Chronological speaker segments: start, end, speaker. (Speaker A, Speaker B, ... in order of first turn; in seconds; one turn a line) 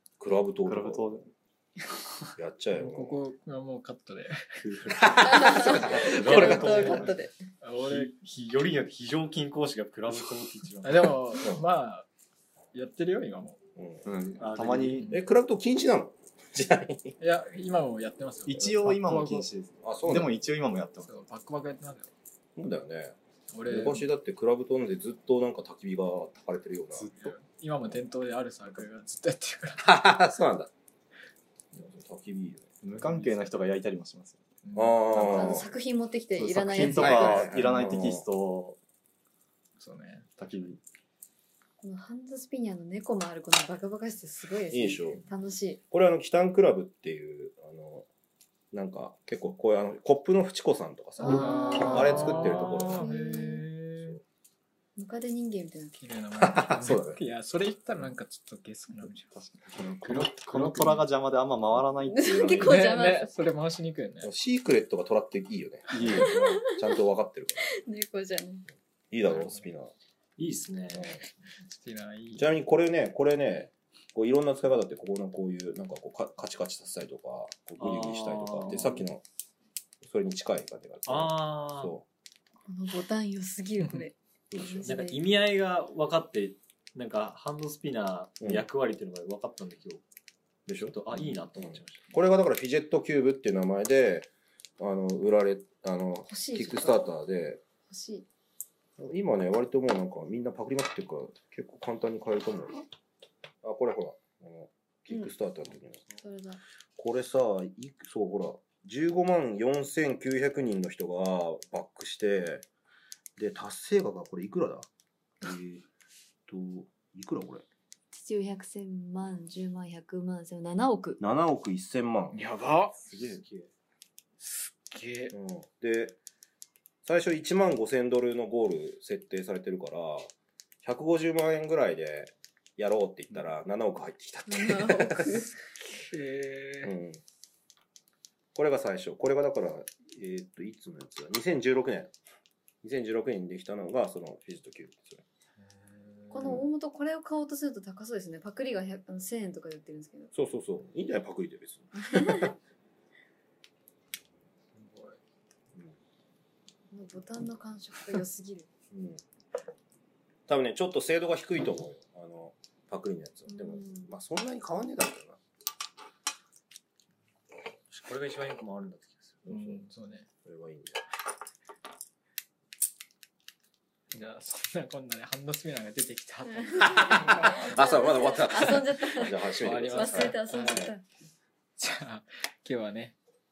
Speaker A: 0.2-1.2
Speaker B: 0.7-1.3
Speaker A: 2.4-3.2
Speaker C: 2.7-4.5
Speaker D: 4.5-7.1
Speaker A: 5.0-6.9
Speaker E: 5.2-7.3
Speaker B: 6.2-7.1
Speaker C: 7.6-8.1
Speaker D: 7.8-11.1
Speaker C: 10.8-12.1
Speaker C: 12.7-13.6
Speaker A: 13.8-14.0
Speaker B: 14.0-15.1
Speaker D: 14.4-15.1
Speaker A: 15.1-17.2
Speaker C: 17.2-19.5
Speaker B: 18.4-21.1
Speaker A: 19.8-20.3
Speaker C: 21.0-22.1
Speaker A: 22.6-23.1
Speaker C: 23.5-24.1
Speaker A: 23.7-27.1
Speaker B: 26.9-27.3
Speaker C: 27.1-29.9
Speaker A: 29.8-30.7
Speaker A: 31.7-32.7
Speaker B: 32.8-34.4
Speaker C: 33.0-33.5
Speaker C: 34.6-35.5
Speaker A: 34.7-35.6
Speaker E: 35.1-37.5
Speaker B: 36.3-38.8
Speaker A: 36.9-38.2
Speaker C: 39.8-40.3
Speaker B: 40.4-40.8
Speaker E: 41.8-45.8
Speaker A: 44.7-45.2
Speaker A: 45.9-48.1
Speaker A: 48.7-53.0
Speaker E: 51.2-53.6
Speaker C: 51.2-54.2
Speaker E: 55.0-56.0
Speaker C: 56.0-61.1
Speaker A: 56.4-57.2
Speaker B: 59.3-62.8
Speaker E: 62.0-63.3
Speaker C: 62.6-64.3
Speaker A: 64.2-67.8
Speaker B: 65.9-66.5
Speaker E: 66.0-67.0
Speaker E: 67.7-68.7
Speaker A: 69.1-69.9
Speaker C: 69.3-69.6
Speaker D: 70.4-71.2
Speaker C: 71.6-72.5
Speaker A: 72.4-79.2
Speaker D: 77.8-79.0
Speaker A: 80.0-82.0
Speaker D: 81.0-81.9
Speaker E: 82.7-85.2
Speaker A: 84.5-84.9
Speaker D: 84.8-90.0
Speaker A: 90.7-97.6
Speaker D: 90.9-92.1
Speaker E: 96.3-97.0
Speaker E: 97.9-98.2
Speaker A: 99.0-102.8
Speaker A: 103.6-106.0
Speaker E: 106.2-106.6
Speaker A: 107.0-112.6
Speaker A: 113.4-114.9
Speaker A: 115.4-115.8
Speaker A: 116.5-117.6
Speaker E: 118.1-121.2
Speaker A: 121.2-122.4
Speaker C: 122.3-123.0
Speaker D: 123.0-123.7
Speaker C: 124.4-125.3
Speaker A: 125.3-126.2
Speaker A: 127.0-130.3
Speaker A: 130.8-135.4
Speaker E: 134.5-135.7
Speaker C: 136.1-136.9
Speaker A: 136.8-137.2
Speaker A: 138.5-142.1
Speaker A: 142.8-145.2
Speaker C: 145.6-146.6
Speaker E: 146.3-150.3
Speaker A: 146.4-146.7
Speaker A: 150.3-152.5
Speaker E: 151.9-152.5
Speaker C: 154.7-155.2
Speaker E: 156.9-158.7
Speaker A: 158.9-159.2
Speaker A: 160.5-165.4
Speaker E: 163.5-164.1
Speaker D: 167.9-169.3
Speaker A: 169.4-169.8
Speaker C: 169.5-170.2
Speaker A: 170.4-171.0
Speaker C: 174.1-177.8
Speaker E: 176.5-179.3
Speaker A: 176.8-180.9
Speaker C: 178.8-180.9
Speaker E: 179.9-181.0
Speaker C: 181.8-183.2